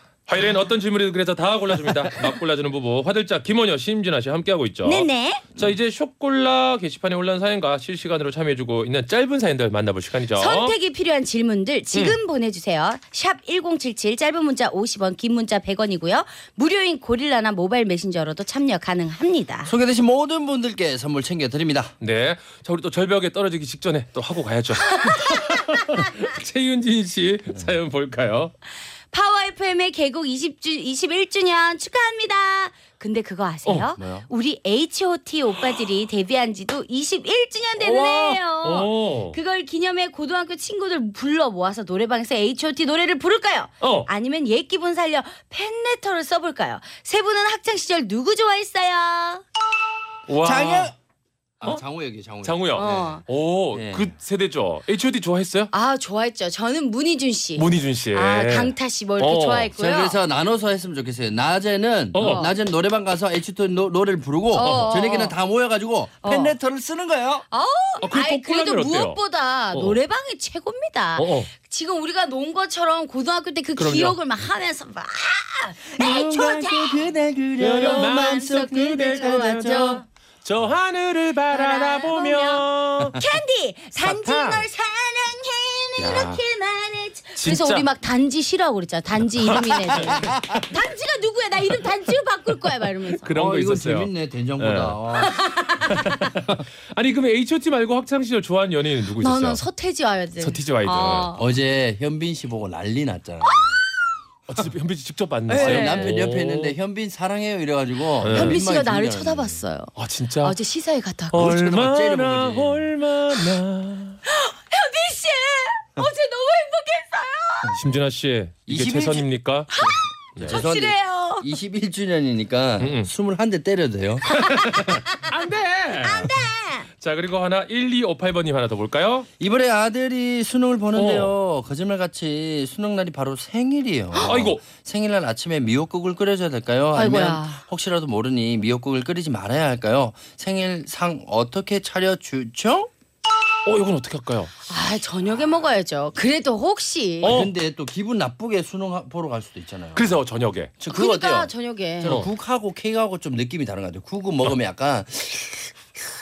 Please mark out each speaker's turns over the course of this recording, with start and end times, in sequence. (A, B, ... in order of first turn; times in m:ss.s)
0:00.3-0:10.7 A
0:04.8-0:05.4 B
0:10.4-0:19.7 B
0:11.9-0:12.2 A
0:19.6-0:21.9 C
0:22.0-0:28.5 A
0:24.8-0:26.3 B
0:29.1-0:49.4 B
0:34.0-0:34.3 C
0:37.8-0:39.4 A
0:43.8-0:44.1 A
0:50.3-0:50.9 A
0:50.4-0:50.9 C
0:51.6-0:53.1 C
0:52.4-0:55.7 A
0:52.7-0:53.2 B
0:53.7-0:54.1 C
0:55.7-1:00.2 B
0:57.5-0:59.7 A
0:59.8-1:07.4 C
1:02.1-1:02.5 A
1:02.1-1:02.6 B
1:04.5-1:05.4 B
1:04.6-1:04.8 A
1:06.2-1:06.6 B
1:07.5-1:17.1 B
1:08.0-1:09.2 A
1:09.7-1:10.0 A
1:11.2-1:11.5 A
1:13.8-1:14.2 A
1:15.9-1:20.0 C
1:17.6-1:23.2 A
1:17.7-1:20.0 B
1:21.5-1:33.3 B
1:24.0-1:24.7 A
1:26.0-1:26.4 A
1:27.4-1:27.9 A
1:29.5-1:30.6 C
1:29.9-1:30.3 A
1:33.0-1:35.0 A
1:33.3-1:35.3 C
1:35.2-1:36.3 B
1:35.8-1:39.6 A
1:39.2-1:41.5 B
1:40.4-1:41.3 A
1:41.3-1:43.8 C
1:43.4-1:43.8 B
1:44.5-1:46.8 A
1:45.5-1:46.1 B
1:45.5-1:49.6 C
1:48.2-1:48.6 A
1:48.2-1:51.4 B
1:50.0-1:50.6 A
1:51.3-1:54.2 A
1:51.3-1:52.9 C
1:54.2-1:57.8 B
1:57.7-1:59.7 A
1:58.7-1:59.3 C
1:59.7-2:01.4 B
1:59.8-2:04.3 C
2:00.4-2:00.6 A
2:02.8-2:03.1 A
2:04.3-2:06.3 A
2:04.8-2:05.2 B
2:06.0-2:06.9 B
2:07.0-2:09.3 A
2:09.4-2:22.9 C
2:10.9-2:11.3 A
2:14.1-2:14.6 A
2:16.9-2:17.6 B
2:23.6-2:24.5 A
2:24.7-2:27.4 B
2:27.2-2:27.5 A
2:27.2-2:30.1 C
2:29.9-2:30.7 A
2:30.8-2:36.0 C
2:30.9-2:32.2 B
2:32.0-2:32.3 A